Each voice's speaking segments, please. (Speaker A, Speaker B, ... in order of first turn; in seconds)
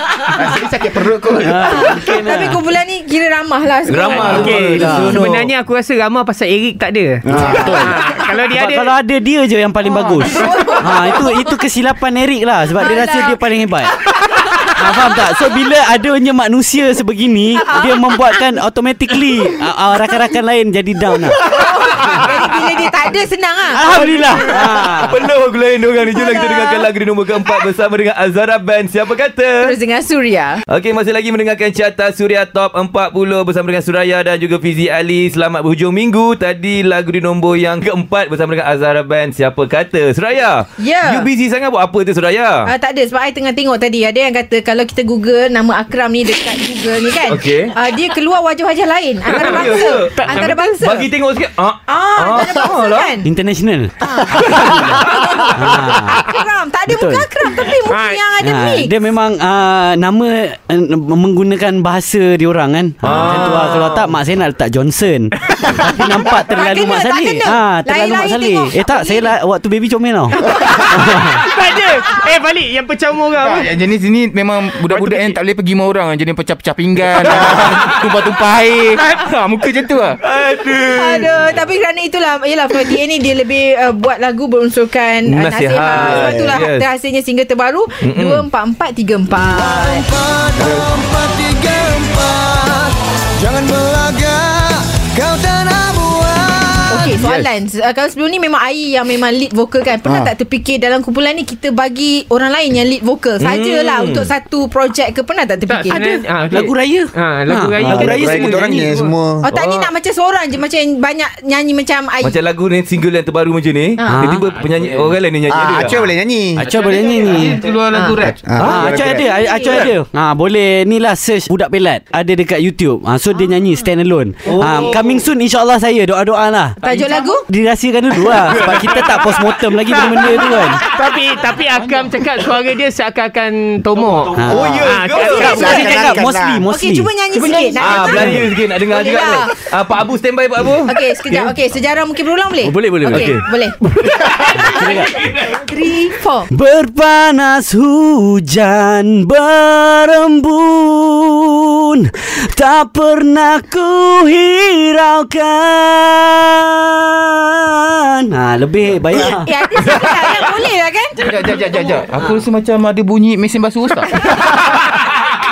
Speaker A: 0.3-2.0, 7.4-8.0, 73.4-80.2, 114.8-115.1, 116.6-118.4, 124.5-125.2, 126.8-127.3, 131.7-132.2, 161.2-164.1
Speaker B: 1.4-2.6, 4.3-5.2, 7.3-7.7, 8.5-13.9, 14.7-21.4, 23.7-25.2, 53.2-53.9, 54.5-55.0, 55.5-56.2, 56.9-57.3, 58.4-71.4, 105.9-108.6, 114.0-114.5, 116.5-117.6, 118.6-126.8, 127.5-130.8, 134.4-134.7, 135.4-137.1, 138.0-138.4, 142.6-143.3, 144.6-145.1, 146.5-159.5
Speaker C: 1.7-4.8, 9.8-11.5, 12.8-13.4, 14.2-15.1, 17.6-18.4, 21.4-24.6, 26.1-26.9, 29.7-30.6, 40.8-41.3, 42.6-51.1, 51.9-53.3, 54.0-54.4, 55.1-58.9, 66.5-69.3, 80.9-90.1, 96.9-106.1, 109.4-112.3, 114.0-114.2, 117.9-118.2, 119.1-119.7, 126.8-127.4, 136.7-139.5, 140.8-146.5, 159.2-161.2, 161.7-161.9
Speaker D: 3.9-5.5, 21.5-22.2, 24.3-29.7, 30.7-42.7, 47.3-47.7, 49.3-53.1, 54.4-55.5, 63.0-64.1, 80.2-81.6, 85.2-86.8, 88.0-88.5, 103.4-104.3, 109.5-109.9, 112.2-116.1, 118.5-119.0, 119.6-119.9, 134.4-135.8, 137.8-141.5, 143.0-143.4, 144.2-145.6, 159.8-160.3, 164.2-165.1
Speaker E: 4.2-8.9, 49.3-50.5, 57.9-58.3, 70.5-73.7, 105.7-109.1, 129.8-136.2, 137.3-138.4
Speaker F: 7.3-7.9, 54.3-55.1, 86.1-86.5, 89.4-97.3, 100.0-100.3, 107.8-109.5, 115.5-116.6, 118.3-119.3, 134.5-136.7